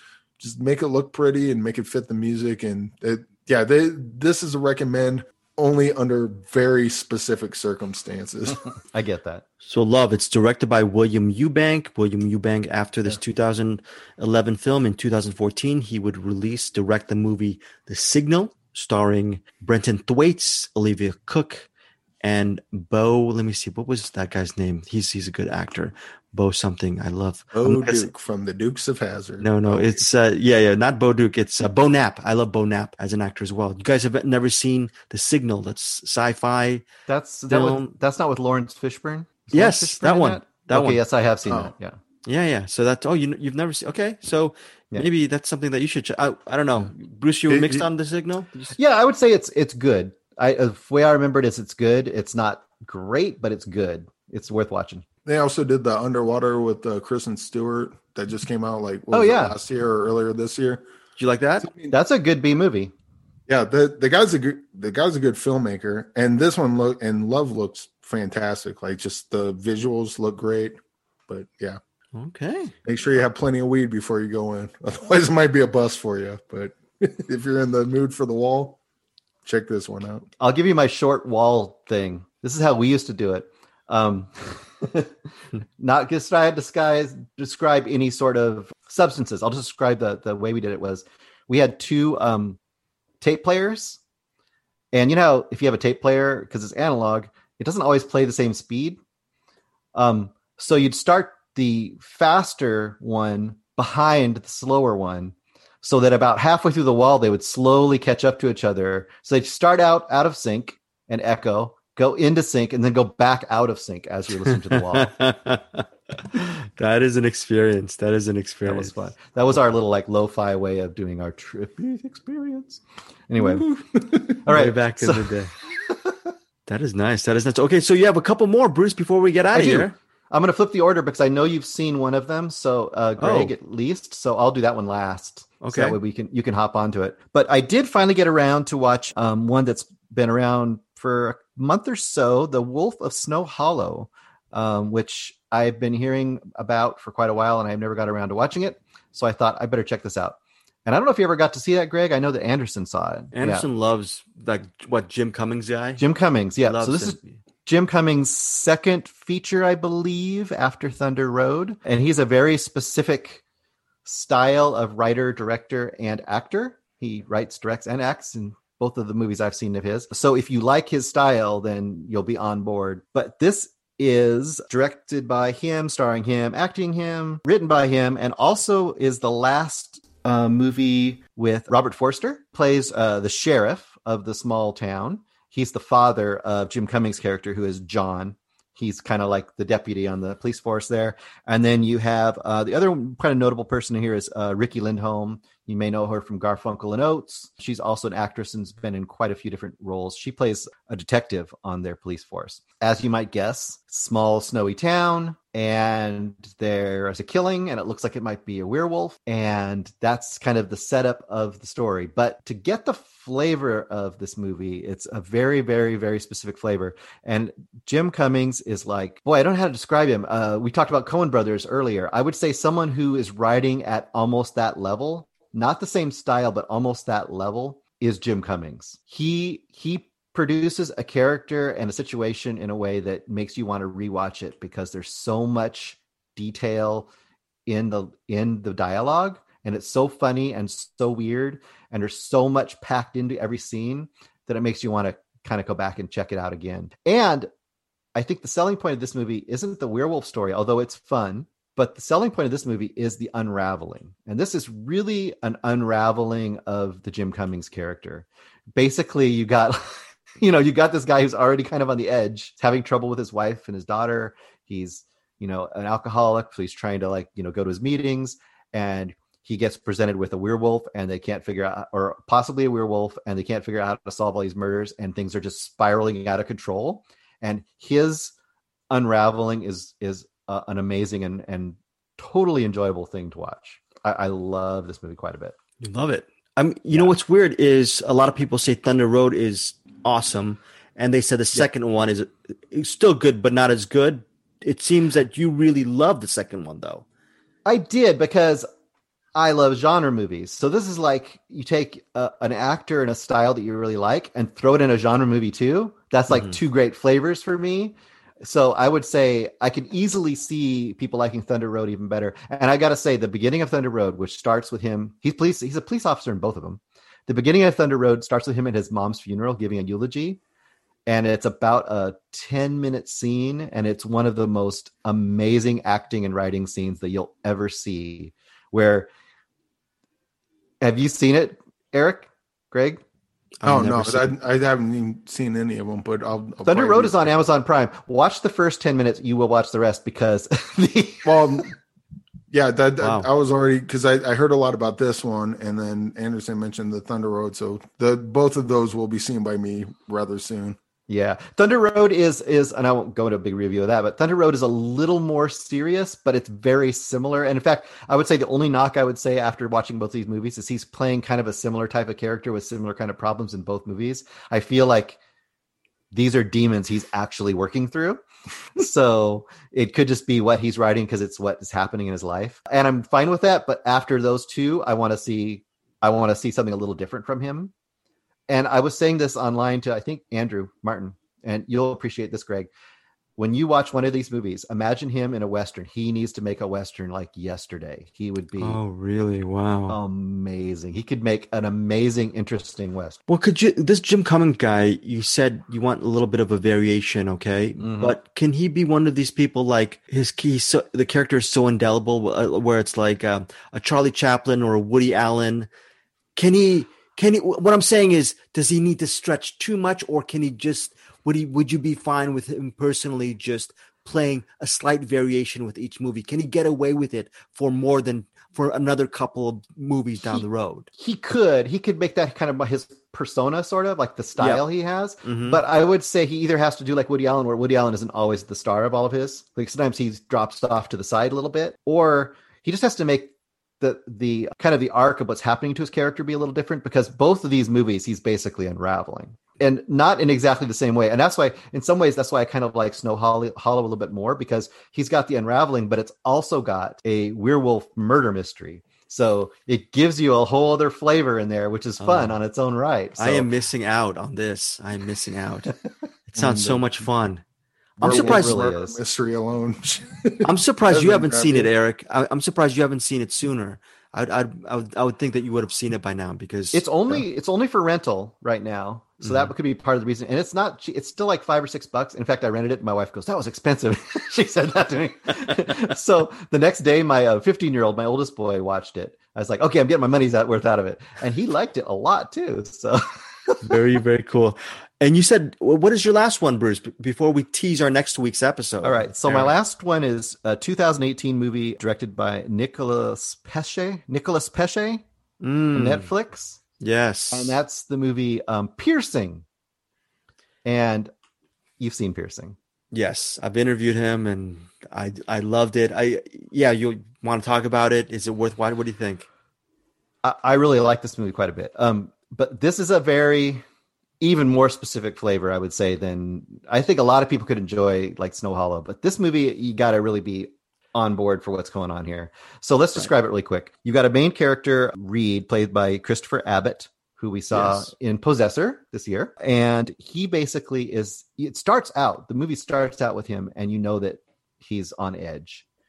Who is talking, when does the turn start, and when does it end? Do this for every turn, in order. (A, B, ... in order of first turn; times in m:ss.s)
0:00.4-0:08.7 A
0:08.9-0:09.4 B
0:09.6-0:21.7 C
0:22.2-0:28.1 C
0:27.5-0:30.0 A
0:29.4-0:36.9 C
0:37.1-0:42.0 B
0:37.5-0:37.9 C
0:39.5-0:41.0 C
0:41.5-0:41.7 A
0:42.2-0:48.8 C
0:47.5-0:47.8 A
0:48.7-0:55.0 B
0:55.2-1:00.8 A
0:59.1-0:59.6 B
1:01.2-1:01.7 C
1:01.6-1:02.0 A
1:01.9-1:02.9 B
1:03.5-1:10.8 A
1:11.3-1:11.8 A
1:12.1-1:12.7 C
1:12.8-1:18.8 A
1:19.4-1:20.3 A
1:20.4-1:25.1 B
1:25.8-1:32.6 B
1:33.2-1:34.0 B
1:34.9-1:39.0 B
1:39.9-1:55.2 B
1:54.4-1:59.0 C
1:58.7-2:03.7 B
2:03.4-2:04.4 A
2:04.4-2:06.2 B
2:04.5-2:05.5 C
2:06.7-2:09.9 C
2:09.5-2:33.6 B
2:13.2-2:13.5 C
2:15.6-2:16.0 C
2:33.3-2:36.0 C
2:36.0-2:43.4 B
2:36.6-2:37.4 C
2:44.0-3:57.1 B
3:57.6-4:07.5 B
4:08.1-4:38.3 B
4:38.9-4:45.5 B
4:45.8-4:57.0 C
4:57.6-4:58.7 B
4:59.3-5:20.4 B
5:21.1-5:29.1 B
5:30.8-5:33.0 B
5:33.6-5:34.3 C
5:33.6-5:37.3 A
5:36.6-5:41.5 B
5:41.2-5:41.8 A
5:42.5-5:50.8 A
5:43.0-5:43.3 C
5:51.1-6:05.2 B
6:06.1-6:08.2 B
6:08.8-6:17.7 B
6:18.5-6:22.7 B
6:23.4-6:28.8 B
6:28.6-6:30.0 C
6:29.9-6:33.2 B
6:33.3-6:45.7 C
6:37.8-6:38.2 B
6:46.4-7:00.9 C
7:01.0-7:33.5 B
7:04.4-7:04.6 C
7:05.2-7:05.6 C
7:32.0-7:32.4 C
7:33.2-7:35.7 C
7:36.3-7:37.4 C
7:36.4-7:37.0 A
7:38.0-7:39.0 B
7:38.0-7:38.6 C
7:38.0-7:41.7 A
7:40.4-7:47.2 C
7:46.7-8:03.8 B
7:49.2-7:49.5 C
8:03.6-8:09.5 C
8:08.8-8:15.0 B
8:15.4-8:16.1 C
8:15.7-8:16.6 B
8:16.8-8:17.6 C
8:17.3-8:19.4 B
8:20.6-8:21.1 B
8:21.8-8:22.6 B
8:22.9-8:29.2 C
8:30.2-8:33.6 B
8:34.2-8:55.6 B
8:47.5-8:47.9 C